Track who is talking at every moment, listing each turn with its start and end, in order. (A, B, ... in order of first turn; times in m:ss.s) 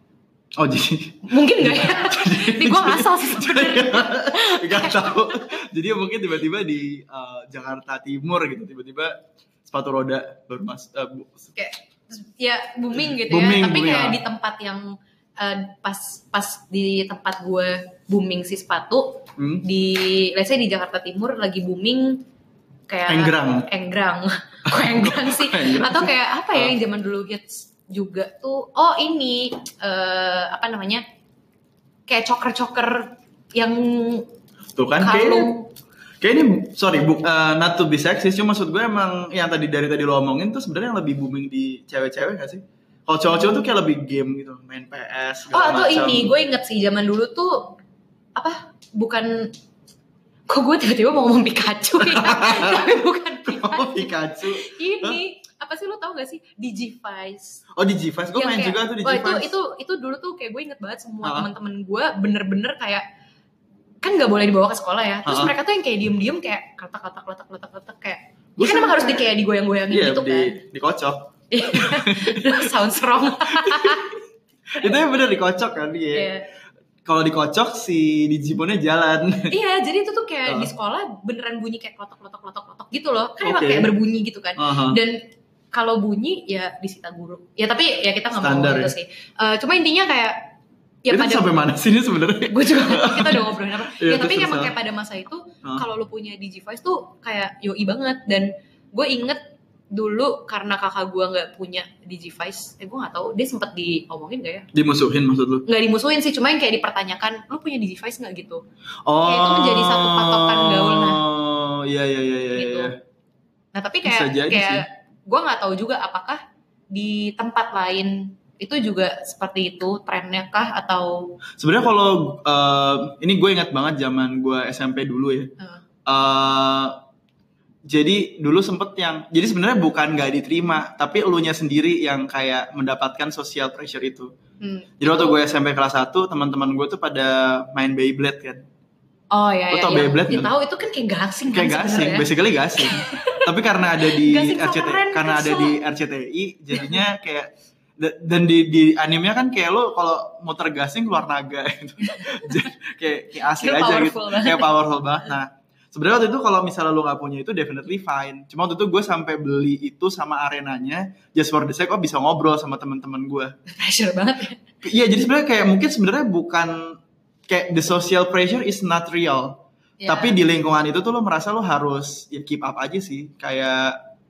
0:00.6-0:11.5 A
0:01.3-0:05.6 B
0:11.6-0:14.8 B
0:13.0-0:14.2 A
0:15.4-0:22.2 B
0:19.4-0:19.7 A
0:22.9-0:31.0 B
0:23.1-0:23.7 A
0:24.7-0:26.8 A
0:32.1-0:34.3 B
0:34.8-0:35.5 A
0:35.0-0:35.7 B
0:36.2-0:46.4 A
0:45.5-0:47.8 B
0:48.4-0:49.5 B
0:50.5-0:57.6 B
0:52.0-0:55.2 A
0:57.8-0:59.5 A
0:58.4-1:03.0 B
1:01.2-1:01.5 A
1:04.0-1:10.6 B
1:05.2-1:05.6 A
1:08.6-1:09.2 A
1:09.9-1:14.1 A
1:11.5-1:14.2 B
1:14.7-1:16.3 A
1:16.1-1:16.5 B
1:17.0-1:19.5 A
1:19.5-1:25.2 B
1:20.5-1:20.7 A
1:23.4-1:23.9 A
1:24.6-1:25.0 A
1:25.7-1:30.5 B
1:28.4-1:28.9 A
1:31.0-1:31.5 B
1:31.1-1:34.7 A
1:32.5-1:39.4 B
1:39.9-1:44.7 B
1:44.7-1:45.7 A
1:45.7-1:48.6 B
1:49.1-1:53.0 A
1:49.2-1:51.2 B
1:52.6-1:52.9 B
1:53.7-2:01.4 B
1:54.0-1:54.9 A
2:01.6-2:05.5 A
2:06.1-2:07.0 A
2:07.9-2:14.3 A
2:14.6-2:15.3 B
2:15.0-2:18.6 A
2:19.3-2:25.8 B
2:19.7-2:20.5 A
2:21.5-2:43.5 A
2:26.7-2:27.0 B
2:32.0-2:32.7 B
2:33.5-2:35.3 B
2:43.7-2:44.6 B
2:44.8-2:47.0 A
2:47.5-2:54.0 A
2:50.0-2:50.4 B